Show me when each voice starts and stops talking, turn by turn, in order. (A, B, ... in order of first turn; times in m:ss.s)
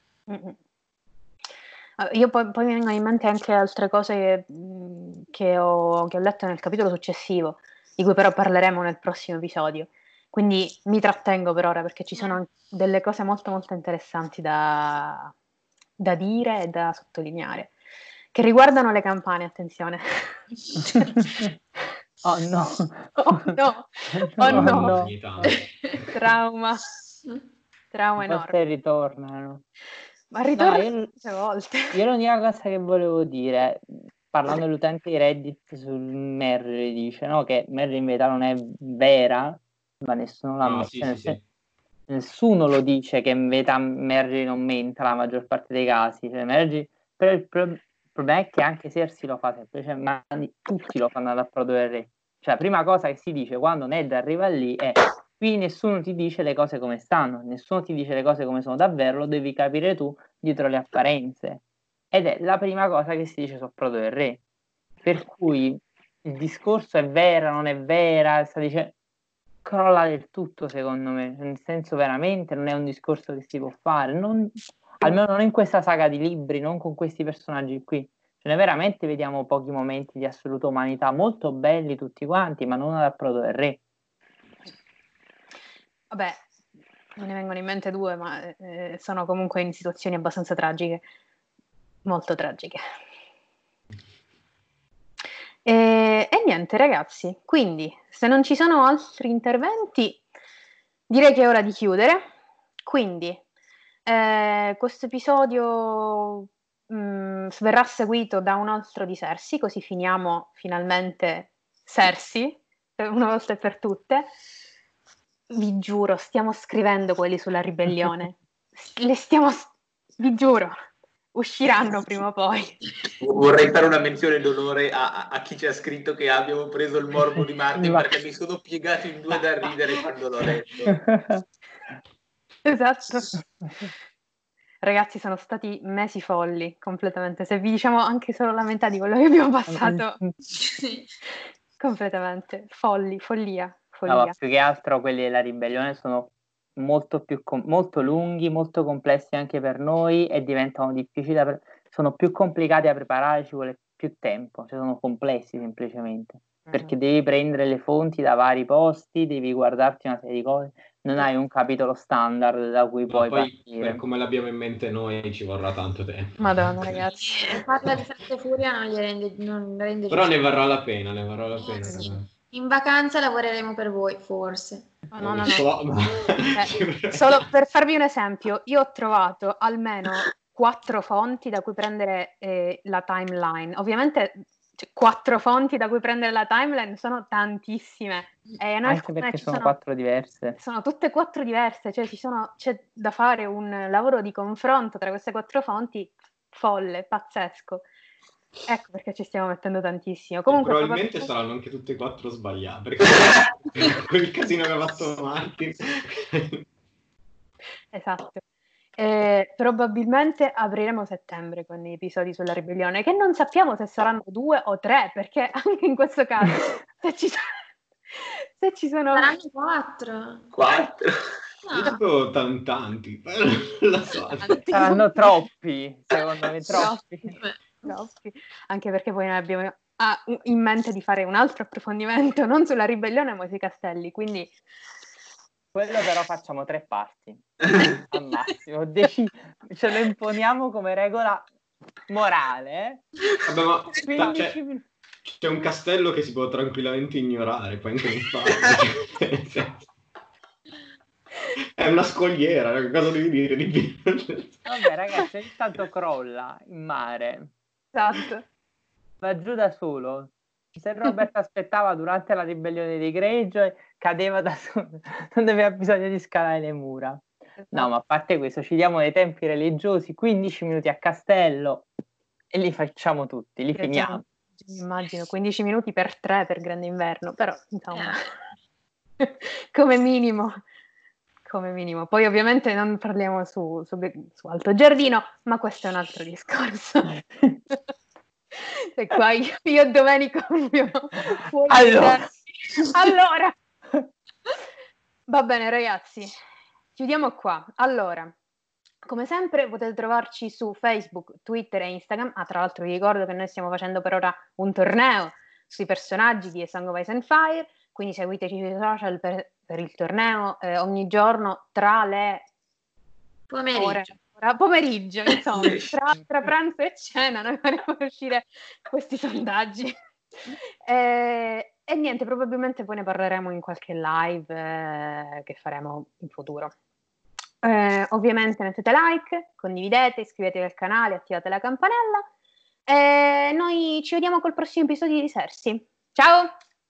0:00.3-0:00.6 A
0:02.0-0:15.3 A
0:16.0-0:17.7 A
0:18.3-0:21.1 A
0:22.2-0:23.5 B
0:23.2-0:25.1 A
0:24.1-0:25.6 B
0:24.4-0:25.6 C
0:26.1-0:26.8 A
0:27.9-0:28.6 A
0:28.2-0:29.6 B
0:30.3-0:32.0 A
0:30.6-0:31.1 B
0:31.9-0:41.4 B
0:40.6-0:41.4 C
0:42.1-1:04.4 B
1:05.0-1:08.9 B
1:09.6-1:23.8 B
1:26.1-1:26.5 A
1:27.2-1:31.1 A
1:32.0-1:32.8 A
1:35.6-1:40.2 A
1:41.1-1:42.3 A
1:42.8-1:43.4 A
1:44.0-1:54.3 A
1:55.5-2:00.8 A
2:01.3-2:02.8 A
2:03.2-2:11.0 D
2:07.8-2:08.1 B
2:10.9-2:11.4 B
2:12.6-2:13.4 A
2:14.8-2:20.2 A
2:19.7-2:20.3 B
2:20.6-2:21.1 E
2:21.8-2:24.4 A
2:24.1-2:44.0 B
2:36.7-2:37.0 A
2:43.1-2:47.0 C
2:46.4-2:47.6 A
2:47.2-2:50.4 E
2:50.1-2:52.3 C
2:51.6-2:54.9 E
2:51.8-2:52.1 A
2:55.1-2:55.8 A
2:55.2-2:57.5 C
2:56.4-3:09.8 A
3:08.8-3:10.6 B
3:10.6-3:17.8 A
3:18.7-3:21.3 A
3:20.5-3:26.6 C
3:27.9-3:28.4 A
3:29.0-3:37.6 A
3:38.2-3:39.3 A
3:39.1-3:40.5 E
3:40.5-3:41.3 D
3:41.7-3:42.0 E
3:41.7-3:44.6 C
3:44.4-3:45.1 A
3:44.7-3:47.4 B
3:46.7-3:54.5 A
3:55.7-4:01.5 B
4:02.1-4:03.1 B
4:03.4-4:04.6 C
4:04.0-4:04.9 B
4:05.3-4:09.8 C
4:11.8-4:14.6 C
4:14.7-4:17.5 B
4:17.9-4:18.4 A
4:19.2-4:31.9 B
4:27.6-4:27.9 A
4:32.5-4:34.2 B
4:33.8-4:38.3 A
4:37.9-4:38.2 E
4:39.2-4:40.6 A
4:41.5-4:47.2 A
4:48.6-4:53.6 A
4:51.7-4:52.2 B
4:55.3-4:56.4 A
4:57.0-4:58.3 A
4:59.0-5:12.5 A
5:13.5-5:14.1 E
5:13.7-5:20.0 A
5:20.5-5:26.7 A
5:27.6-5:32.3 A
5:32.9-5:36.5 A